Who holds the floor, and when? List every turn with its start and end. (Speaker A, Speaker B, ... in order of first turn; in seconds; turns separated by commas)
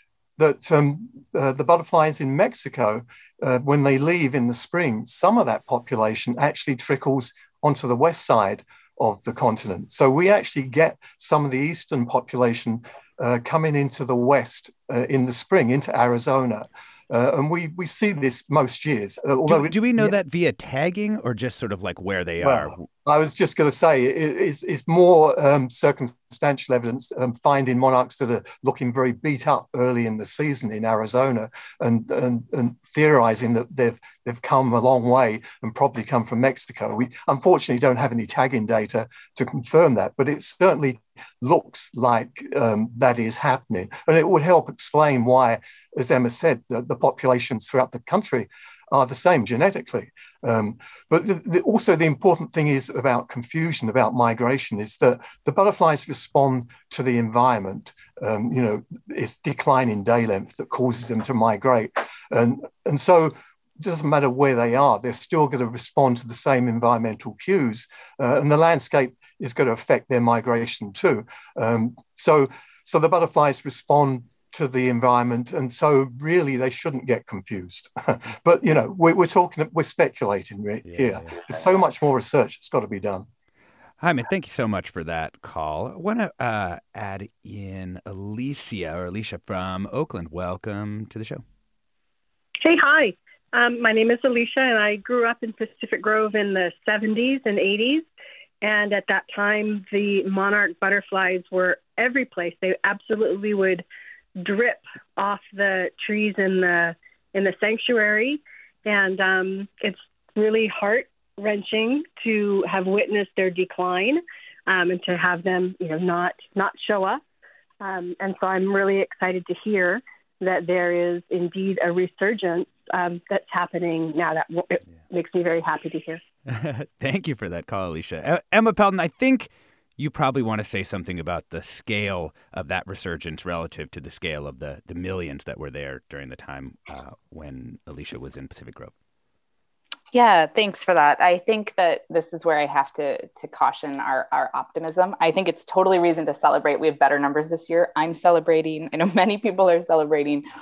Speaker A: 0.4-20.1, Speaker B: 19.5-22.8, Speaker A: 22.4-83.3, Speaker B: 80.8-81.3, Speaker B: 84.0-91.4, Speaker C: 92.6-98.0, Speaker C: 98.6-103.8, Speaker C: 104.4-117.2, Speaker C: 117.8-126.2, Speaker B: 126.5-138.9, Speaker D: 140.1-150.4